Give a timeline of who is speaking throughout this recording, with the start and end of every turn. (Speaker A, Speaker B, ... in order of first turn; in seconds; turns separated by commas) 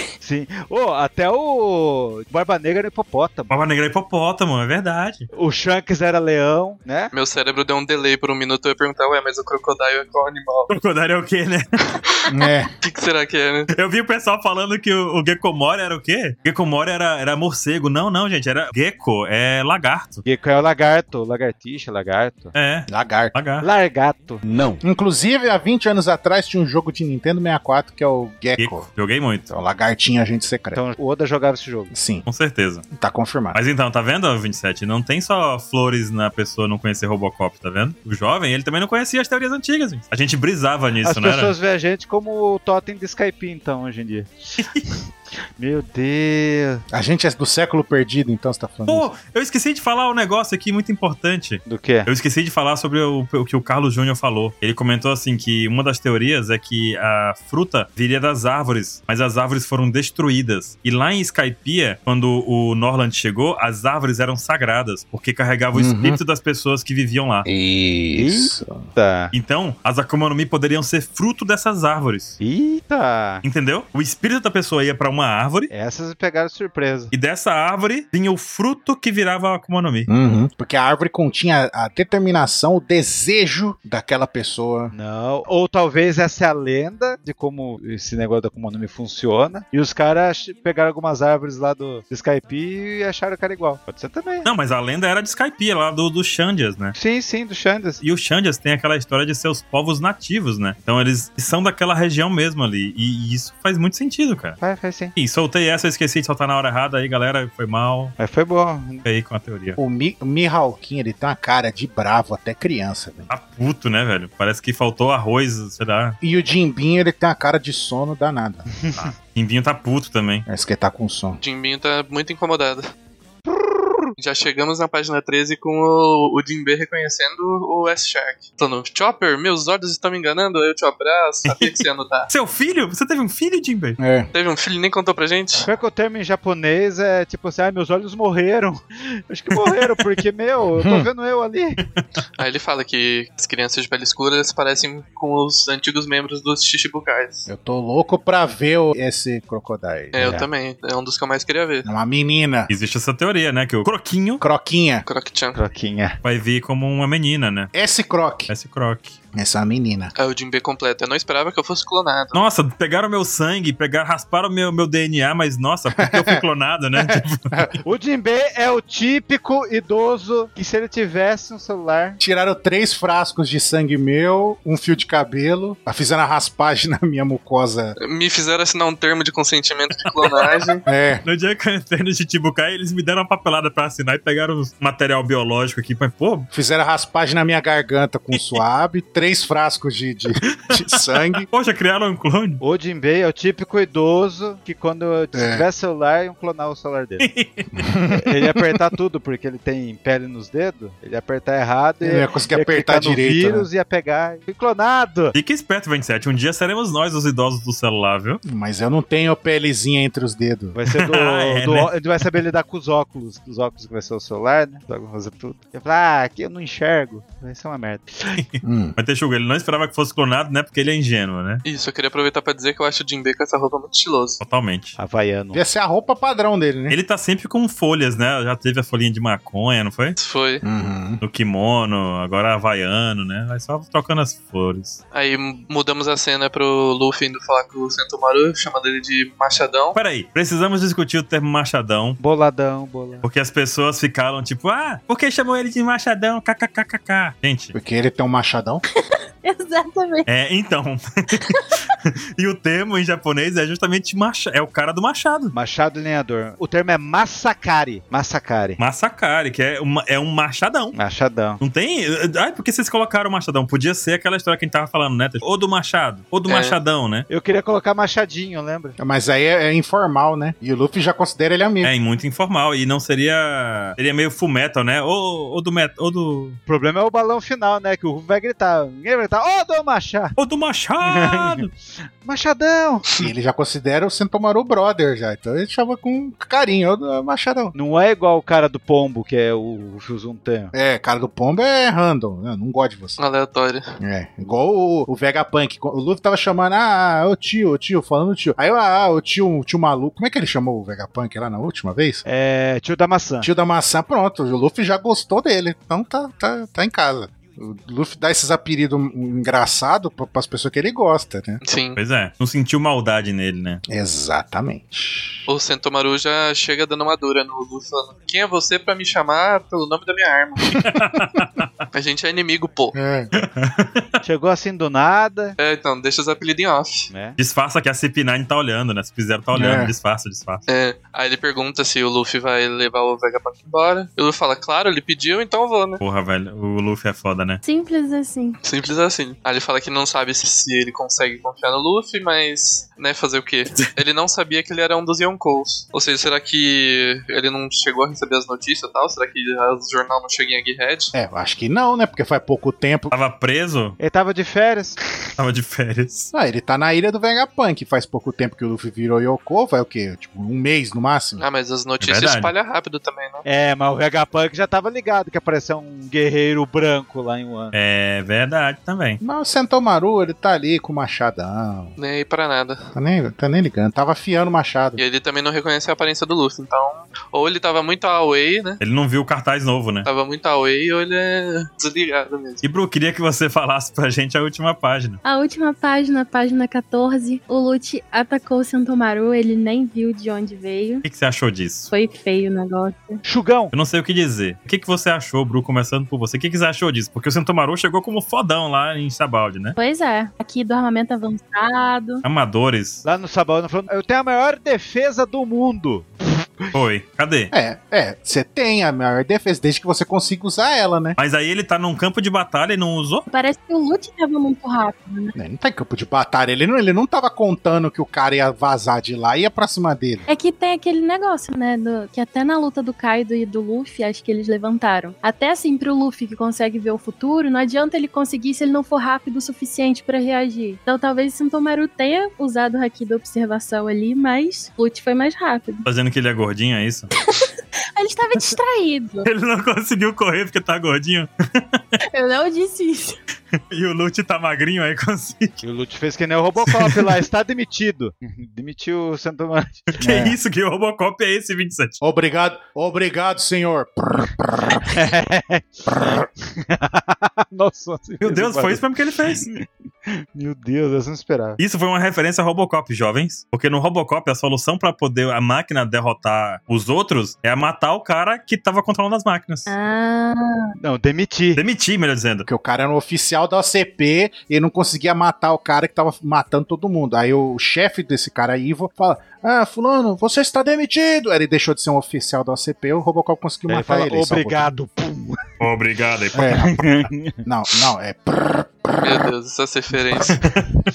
Speaker A: 0.2-3.5, Speaker B: 3.5-5.3, Speaker A: 5.3-7.1, Speaker C: 7.1-10.7, Speaker B: 10.7-11.9, Speaker D: 12.3-12.7, Speaker C: 12.8-13.7, Speaker B: 13.7-20.2, Speaker A: 20.2-22.5, Speaker B: 22.5-23.7, Speaker D: 22.9-23.4, Speaker A: 23.6-24.4, Speaker D: 24.8-28.9, Speaker B: 28.6-29.5, Speaker D: 29.5-30.8, Speaker A: 30.7-31.9, Speaker D: 31.9-32.3, Speaker B: 32.2-32.9, Speaker D: 32.9-33.6, Speaker B: 33.5-41.5, Speaker A: 41.0-44.9, Speaker B: 44.6-44.8, Speaker A: 45.6-46.8, Speaker D: 46.9-49.1, Speaker B: 48.9-67.5, Speaker A: 51.6-52.1, Speaker D: 65.7-66.2, Speaker D: 67.4-68.9, Speaker A: 68.1-69.3, Speaker B: 69.3-72.4, Speaker A: 72.4-73.4, Speaker B: 73.4-75.7, Speaker A: 75.7-77.1, Speaker B: 77.1-80.1, Speaker D: 80.1-84.9, Speaker A: 84.9-94.5, Speaker B: 94.4-96.9, Speaker A: 97.0-98.0, Speaker B: 98.0-104.6, Speaker A: 104.6-105.1, Speaker B: 105.2-108.1, Speaker A: 108.2-109.0, Speaker B: 109.0-109.8, Speaker D: 109.8-113.3, Speaker B: 113.3-116.2, Speaker D: 116.2-118.7, Speaker B: 119.0-120.5, Speaker D: 120.5-121.4, Speaker C: 121.4-122.9, Speaker A: 123.5-124.1, Speaker C: 124.2-132.3, Speaker B: 131.5-131.8, Speaker B: 132.3-134.0, Speaker D: 134.0-134.3, Speaker C: 134.3-135.7, Speaker A: 135.6-141.8, Speaker B: 139.5-140.0, Speaker D: 140.8-141.1, Speaker C: 142.4-147.5, Speaker D: 147.5-150.2, Speaker C: 150.1-151.9, Speaker A: 150.2-150.5, Speaker D: 151.8-152.7, Speaker B: 152.7-154.4, Speaker D: 154.4-155.1, Speaker C: 155.1-155.6, Speaker A: 155.5-156.2, Speaker B: 156.2-157.7, Speaker D: 157.7-158.5, Speaker B: 158.5-159.2, Speaker D: 159.3-160.1, Speaker C: 160.2-162.4, Speaker B: 162.3-167.6, Speaker D: 166.0-166.4, Speaker D: 167.0-167.8, Speaker A: 167.8-172.2, Speaker D: 172.2-177.9, Speaker C: 178.0-180.8, Speaker B: 180.2-180.7, Speaker D: 180.8-181.2, Speaker B: 181.2-186.5, Speaker D: 186.5-191.5, Speaker B: 188.3-188.6, Speaker B: 191.5-192.6, Speaker A: 192.6-197.3, Speaker D: 195.3-195.6, Speaker B: 197.2-197.7, Speaker D: 197.8-198.4, Speaker A: 198.1-205.3, Speaker D: 202.0-203.7, Speaker B: 205.3-208.4, Speaker D: 208.4-210.8, Speaker A: 210.7-218.4, Speaker B: 211.0-211.9, Speaker B: 218.3-221.6, Speaker D: 218.6-218.9, Speaker C: 221.6-224.4, Speaker B: 224.4-225.0, Speaker A: 225.0-225.6, Speaker D: 225.5-227.0, Speaker B: 226.9-230.2, Speaker C: 230.2-230.6, Speaker D: 230.6-231.2, Speaker B: 231.2-235.0, Speaker C: 235.1-239.9, Speaker B: 239.9-242.2, Speaker A: 242.2-243.2, Speaker B: 243.2-247.7, Speaker D: 247.7-248.8, Speaker E: 249.4-250.3, Speaker B: 250.3-255.5, Speaker A: 255.5-258.8, Speaker B: 258.8-260.9, Speaker A: 260.9-261.6, Speaker B: 261.6-267.2, Speaker C: 266.5-266.8, Speaker A: 267.3-269.0, Speaker D: 269.0-271.9, Speaker B: 271.8-276.6, Speaker A: 276.7-280.4, Speaker B: 280.4-281.7, Speaker A: 281.0-283.2, Speaker D: 283.2-287.7, Speaker A: 287.7-290.7, Speaker D: 290.7-293.2, Speaker C: 293.2-293.8, Speaker D: 294.0-302.2, Speaker A: 302.2-303.5, Speaker D: 303.4-311.6, Speaker C: 311.6-312.0, Speaker B: 311.9-313.8, Speaker D: 313.9-315.4, Speaker C: 315.5-320.8, Speaker B: 320.8-321.7, Speaker C: 321.9-322.9, Speaker D: 322.9-323.3, Speaker B: 323.3-324.1, Speaker A: 324.2-325.6, Speaker C: 325.6-327.1, Speaker A: 327.1-327.4, Speaker B: 327.4-330.6, Speaker D: 329.5-329.9, Speaker C: 330.7-336.0, Speaker B: 336.0-337.6, Speaker E: 337.6-338.6, Speaker C: 338.6-351.1, Speaker D: 351.1-353.1, Speaker B: 353.1-354.0, Speaker A: 354.0-355.0, Speaker B: 355.4-356.3, Speaker D: 356.3-361.4, Speaker C: 361.4-363.4, Speaker B: 362.0-362.5, Speaker A: 363.4-367.7, Speaker B: 367.7-369.2, Speaker D: 369.2-371.9, Speaker C: 372.0-372.9, Speaker D: 372.9-375.0, Speaker C: 374.9-378.8, Speaker B: 378.8-380.1, Speaker C: 380.0-382.6, Speaker B: 382.6-385.2, Speaker E: 385.2-391.0, Speaker B: 391.0-391.9, Speaker E: 391.9-393.2, Speaker A: 393.2-393.7, Speaker B: 393.7-399.8, Speaker E: 399.8-402.2, Speaker B: 402.2-403.0, Speaker A: 403.0-406.5, Speaker B: 406.7-407.5, Speaker D: 407.5-411.2, Speaker B: 411.2-413.2, Speaker E: 413.3-415.3, Speaker D: 415.4-420.2, Speaker E: 420.3-435.9, Speaker B: 435.8-437.1, Speaker E: 437.2-439.3, Speaker B: 439.2-441.8, Speaker E: 442.1-443.2, Speaker B: 443.6-445.6, Speaker A: 445.6-450.0, Speaker B: 446.6-447.1, Speaker B: 449.9-452.0, Speaker D: 450.0-450.4, Speaker D: 452.0-454.9, Speaker A: 454.8-461.6, Speaker B: 458.2-459.5, Speaker B: 461.6-469.7, Speaker E: 469.7-470.7, Speaker A: 470.8-471.6, Speaker B: 471.6-472.4, Speaker D: 472.4-484.7, Speaker A: 483.7-485.4, Speaker B: 485.6-486.8, Speaker D: 486.3-486.7, Speaker A: 486.5-487.4, Speaker D: 487.4-489.2, Speaker C: 489.0-490.4